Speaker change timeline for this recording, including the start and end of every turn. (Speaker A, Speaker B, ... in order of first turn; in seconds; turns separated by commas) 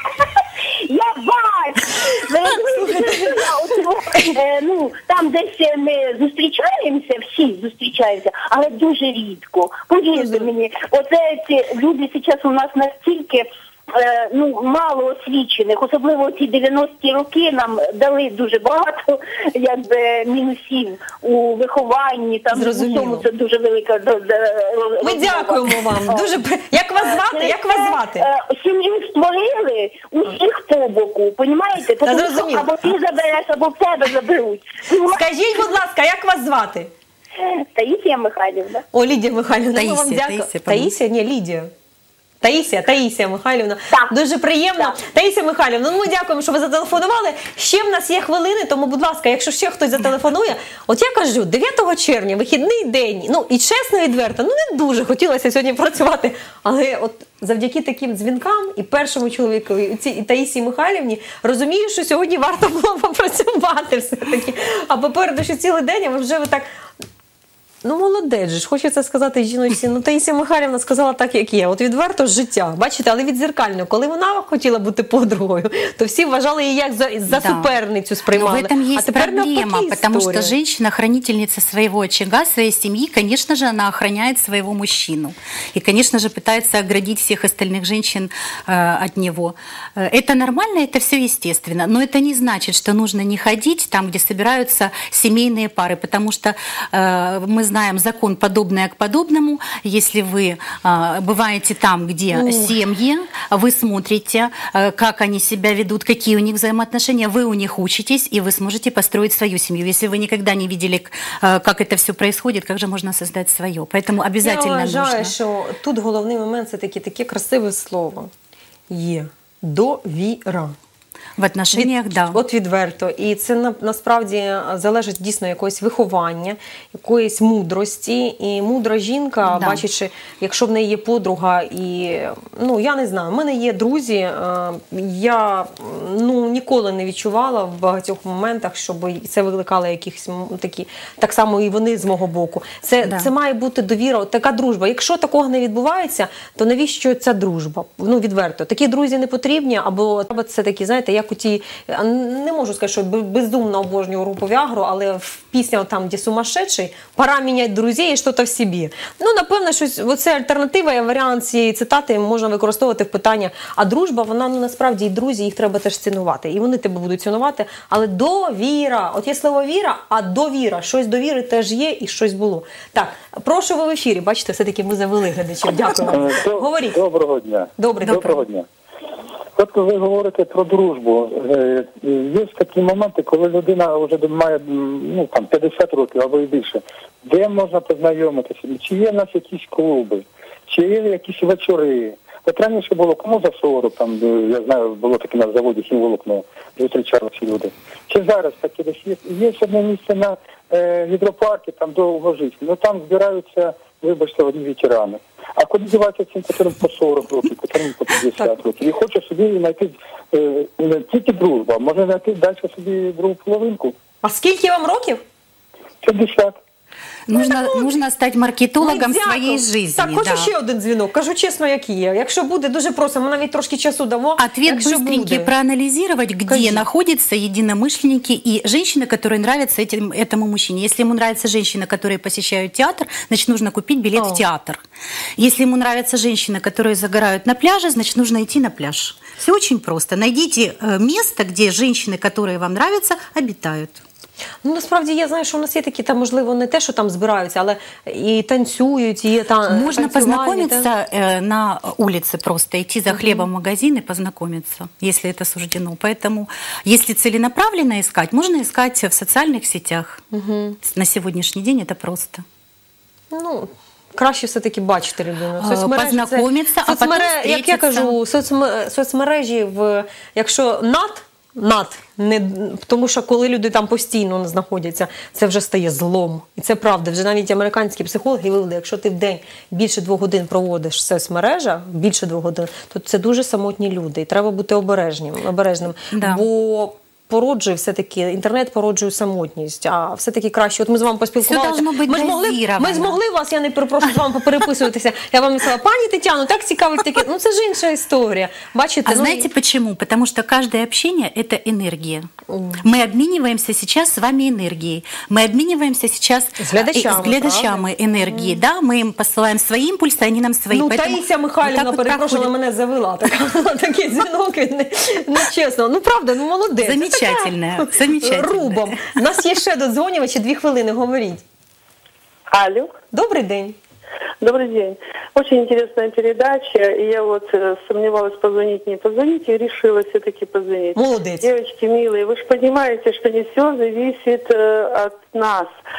Speaker A: 0.4-26.4, Speaker B: 2.7-3.5, Speaker B: 10.2-10.4, Speaker B: 22.5-23.2, Speaker B: 25.0-28.2, Speaker A: 27.0-35.2, Speaker B: 32.0-32.7, Speaker B: 35.0-36.9, Speaker A: 37.4-38.8, Speaker B: 38.9-41.7, Speaker C: 39.8-40.9, Speaker B: 42.4-66.7, Speaker B: 67.8-80.5, Speaker C: 77.3-77.7, Speaker C: 78.3-115.3, Speaker B: 102.3-102.7, Speaker B: 114.4-118.3, Speaker B: 118.9-120.7, Speaker C: 121.4-122.4, Speaker B: 121.7-177.0, Speaker C: 129.4-129.8, Speaker C: 143.0-143.3, Speaker D: 176.1-178.7, Speaker B: 177.8-178.4, Speaker D: 179.6-213.9, Speaker B: 214.2-215.2, Speaker D: 216.0-216.6, Speaker C: 217.3-220.5, Speaker B: 217.3-217.9, Speaker B: 218.8-225.5, Speaker C: 224.4-234.8, Speaker B: 226.5-226.8, Speaker B: 234.1-234.4, Speaker C: 235.4-244.0, Speaker B: 244.6-250.9, Speaker C: 249.7-260.2, Speaker B: 253.1-253.4, Speaker B: 260.3-260.8, Speaker C: 260.8-262.4, Speaker B: 263.3-299.5, Speaker C: 265.6-268.1, Speaker C: 286.1-286.4, Speaker C: 291.4-293.2, Speaker C: 299.1-302.3, Speaker B: 302.5-302.8, Speaker C: 302.8-312.5, Speaker B: 306.6-308.6, Speaker B: 310.7-321.4, Speaker C: 316.8-318.9, Speaker E: 322.5-322.9, Speaker B: 323.1-323.8, Speaker E: 324.4-335.7, Speaker B: 330.9-331.5